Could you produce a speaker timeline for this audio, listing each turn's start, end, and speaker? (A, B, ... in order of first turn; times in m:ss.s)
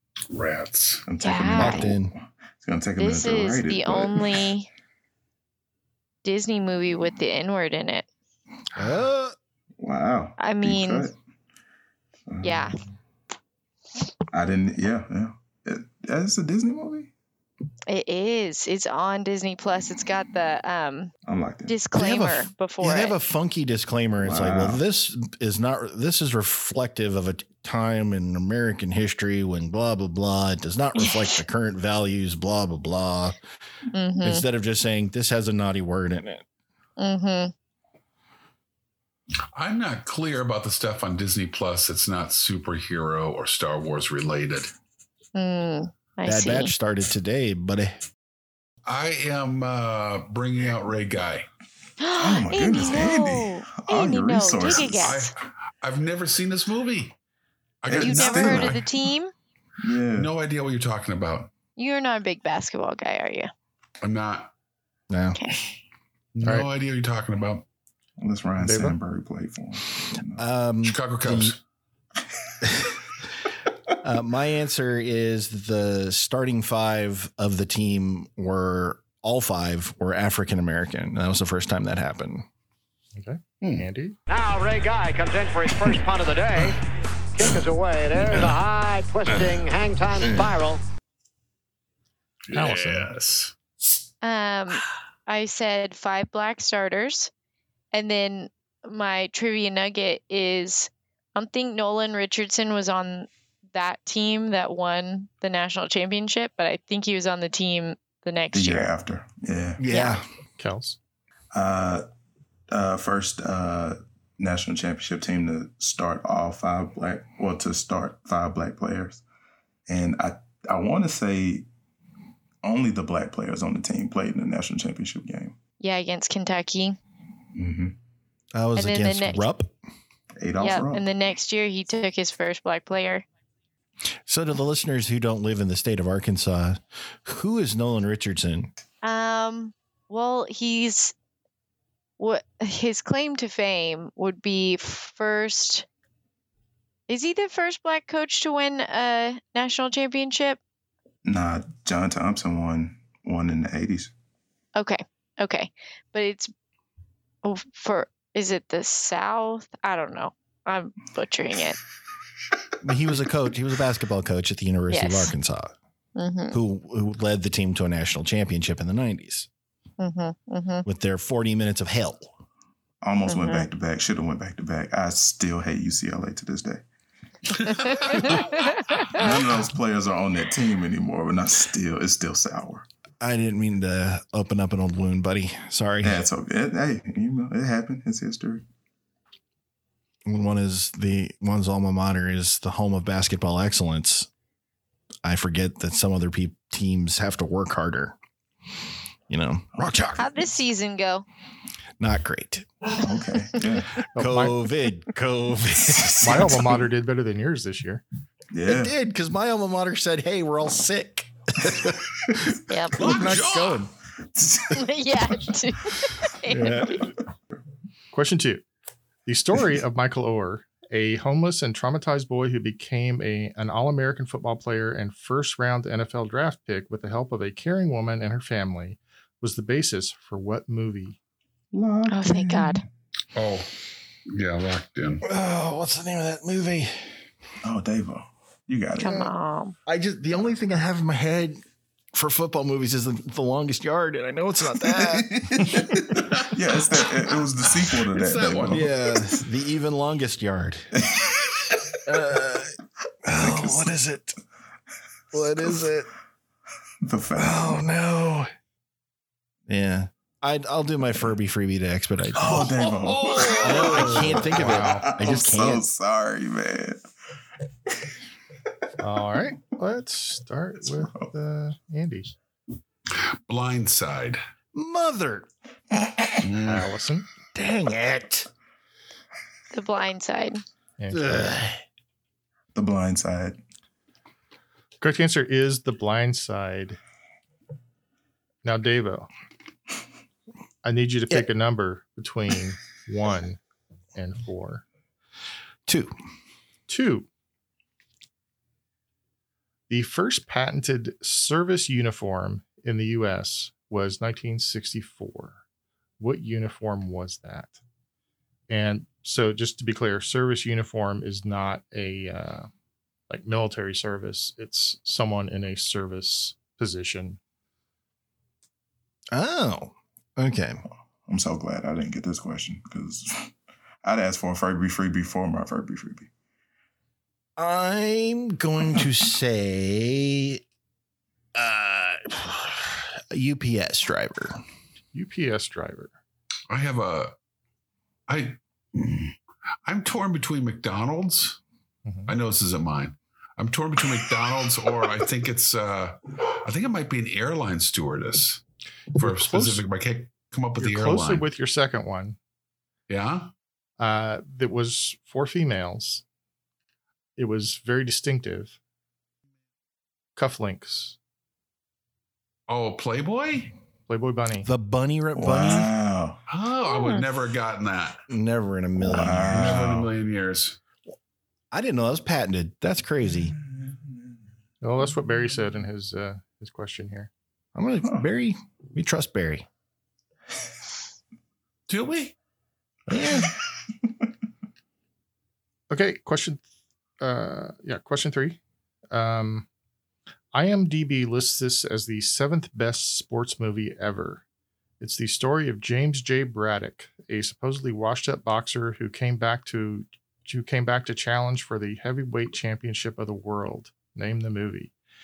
0:00.3-0:01.0 A
0:01.1-0:04.5 B
0:01.2-0:01.9 C
0:01.5-0:02.2 D
0:03.0-0:04.7 C
0:06.2-0:08.1 C
0:08.8-0:09.4 D
0:09.8-0:11.1 B
0:10.4-0:11.1 C
0:12.3-0:12.7 B
0:12.4-0:12.8 C
0:14.3-0:17.1 B
0:17.9-0:21.1 C
0:21.3-0:21.8 B
0:21.7-0:23.2 C
0:22.0-0:33.4 D
0:24.2-0:24.8 B
0:31.0-0:31.3 C
0:33.9-0:34.4 C
0:34.2-0:36.4 D
0:37.0-0:37.5 C
0:39.6-0:44.7 A
0:45.4-0:46.7 C
0:46.2-0:48.0 D
0:48.9-0:51.5 A
0:52.0-0:55.3 C
0:52.2-0:55.2 B
0:55.0-0:57.2 A
0:57.8-0:58.8 A
0:57.9-0:58.8 B
0:58.0-0:59.3 C
0:59.8-1:00.3 B
1:00.2-1:01.5 A
1:01.8-1:03.5 C
1:04.0-1:04.5 A
1:05.1-1:05.4 D
1:06.4-1:07.6 A
1:08.2-1:10.4 B
1:08.6-1:09.0 E
1:10.4-1:11.6 D
1:10.8-1:11.6 A
1:12.6-1:12.9 D
1:14.0-1:22.5 D
1:23.2-1:24.2 E
1:24.3-1:26.8 F
1:27.4-1:30.8 F
1:30.2-1:30.5 D
1:32.5-1:33.6 A
1:32.5-1:33.1 E
1:34.2-1:37.3 C
1:37.9-1:48.9 C
1:48.5-1:49.8 B
1:49.8-1:50.2 D
1:49.9-1:50.2 C
1:50.6-1:51.0 E
1:51.5-1:52.0 B
1:52.7-1:59.2 B
1:59.9-2:01.7 B
2:02.6-2:05.6 B
2:05.8-2:07.0 C
2:07.6-2:08.0 B
2:08.5-2:09.7 D
2:08.8-2:09.4 C
2:10.4-2:11.0 B
2:10.6-2:13.2 C
2:14.3-2:18.7 D
2:19.0-2:21.1 C
2:22.2-2:25.9 C
2:27.1-2:30.6 C
2:31.2-2:34.1 B
2:34.8-2:36.5 C
2:37.4-2:41.8 C
2:42.8-2:45.7 D
2:44.9-2:45.3 C
2:46.2-2:46.6 C
2:46.5-2:49.5 D
2:50.0-2:50.8 C
2:50.8-2:52.4 D
2:53.0-2:56.8 B
2:53.3-2:53.7 C
2:57.6-2:58.3 A
2:57.7-2:59.1 C
2:58.0-2:58.5 B
2:59.1-3:02.9 B
3:03.2-3:06.2 D
3:06.0-3:08.6 B
3:10.3-3:14.3 D
3:15.2-3:18.2 D
3:19.3-3:20.3 D
3:20.2-3:21.3 C
3:22.0-3:22.7 D
3:23.0-3:24.0 B
3:24.1-3:24.6 E
3:24.2-3:26.8 D
3:26.2-3:28.0 E
3:28.5-3:28.9 B
3:28.7-3:32.4 D
3:32.7-3:33.1 C
3:33.0-3:33.9 A
3:33.0-3:33.9 E
3:33.1-3:33.3 B
3:34.4-3:34.9 B
3:34.7-3:37.0 C
3:36.5-3:37.1 D
3:38.1-3:38.6 E
3:39.3-3:51.2 E
3:51.7-3:52.8 B
3:52.1-3:52.8 C
3:53.4-3:53.7 A
3:54.3-3:55.2 A
3:55.2-3:57.2 D
3:57.6-3:59.3 B
3:59.0-3:59.8 C
3:59.9-4:01.6 D
4:02.1-4:05.4 D
4:04.9-4:08.9 B
4:08.1-4:08.9 A
4:08.7-4:10.9 D
4:11.1-4:11.3 B
4:12.0-4:14.4 D
4:13.4-4:13.9 B
4:15.3-4:16.1 D
4:17.0-4:17.8 B
4:17.4-4:18.5 D
4:19.7-4:22.8 D
4:22.4-4:27.0 B
4:22.5-4:24.7 A
4:23.6-4:25.8 D
4:24.4-4:25.1 E
4:29.0-4:32.3 E
4:31.0-4:31.3 B
4:33.2-4:34.4 A
4:34.7-4:35.5 D
4:36.4-4:36.9 A
4:36.6-4:37.2 E
4:37.5-4:38.5 D
4:39.7-4:40.6 C
4:41.0-4:41.6 E
4:41.1-4:41.8 D
4:42.7-4:43.6 B
4:45.0-4:47.0 E
4:48.6-4:49.3 E
4:50.8-4:53.6 E
4:54.2-4:54.8 E
4:55.9-4:56.1 D
4:56.9-4:57.3 E
4:59.9-5:05.6 E
5:06.2-5:07.8 E
5:08.7-5:12.7 E
5:13.3-5:17.4 E
5:19.3-5:20.8 D
5:21.3-5:23.5 B
5:24.0-5:26.3 B
5:27.6-5:30.6 D
5:31.6-5:34.6 D
5:35.1-5:36.1 E
5:36.7-5:37.4 A
5:38.3-5:41.6 A
5:42.0-5:42.3 E
5:42.3-5:48.6 A
5:49.2-5:49.8 E
5:49.2-5:51.5 A
5:50.8-5:52.4 E
5:53.1-5:53.5 A
5:54.0-5:56.2 E
5:57.4-5:58.8 E
6:00.4-6:01.2 E
6:02.7-6:03.7 A
6:04.1-6:04.7 E
6:04.6-6:05.9 D
6:05.4-6:06.4 B
6:06.5-6:08.2 A
6:06.9-6:07.2 C
6:08.3-6:10.0 D
6:09.0-6:10.1 B
6:09.5-6:10.8 A
6:11.7-6:13.6 D
6:13.6-6:14.0 B
6:14.8-6:17.3 E
6:17.8-6:19.7 D
6:21.9-6:22.3 A
6:23.1-6:23.5 D
6:25.9-6:26.6 E
6:27.2-6:28.6 E
6:29.1-6:29.7 E
6:30.5-6:34.4 E
6:35.0-6:44.9 E